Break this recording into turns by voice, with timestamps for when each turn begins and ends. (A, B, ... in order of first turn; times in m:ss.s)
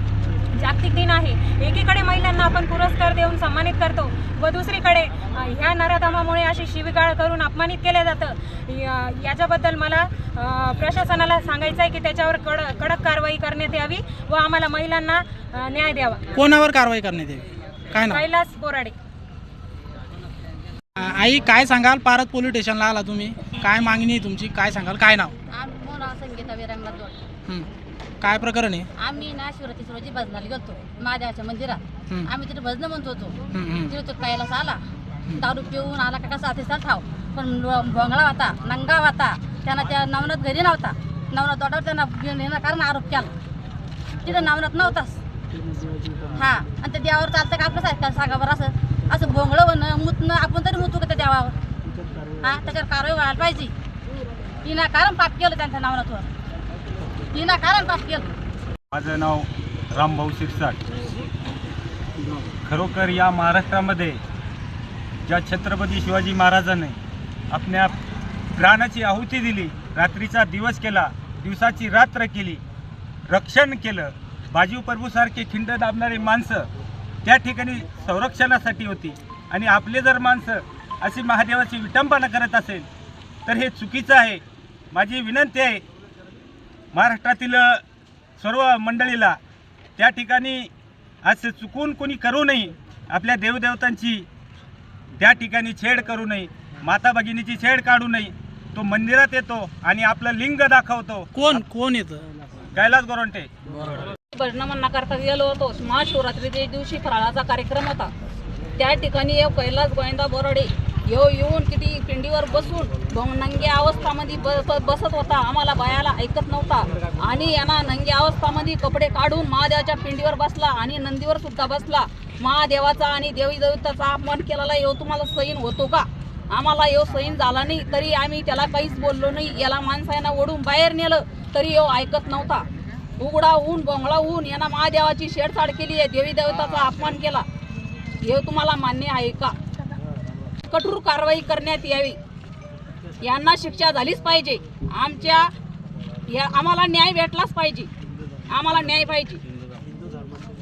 0:00.5-0:16.2 A
0:16.3-0:18.2 B
0:18.1-0:18.9 A
0:21.0-0:25.3 B
0:25.5-0:27.2 C
0:28.2-0:28.9 B
0:29.0-0:34.8 C
0:33.5-0:33.9 B
0:35.3-0:43.3 C
0:44.2-0:45.2 C
0:46.3-0:51.5 C
0:52.4-0:53.7 C
0:54.6-0:56.3 C
0:57.3-0:58.3 C
0:58.9-1:00.8 D
1:02.6-1:04.2 D
1:05.2-1:07.0 D
1:07.5-1:07.9 D
1:08.6-1:12.6 D
1:13.3-1:16.6 D
1:17.2-1:22.9 D
1:23.4-1:25.8 D
1:26.9-1:27.8 D
1:28.4-1:29.4 D
1:30.0-1:30.7 D
1:31.2-1:34.2 D
1:35.2-1:41.3 D
1:41.3-1:42.2 B
1:42.7-1:43.5 D
1:44.3-1:48.1 E
1:48.8-2:12.6 E
2:13.2-2:17.4 E
2:18.2-2:19.6 E
2:20.7-2:22.2 E
2:23.2-2:25.5 E
2:26.3-2:27.9 E
2:28.5-2:29.4 E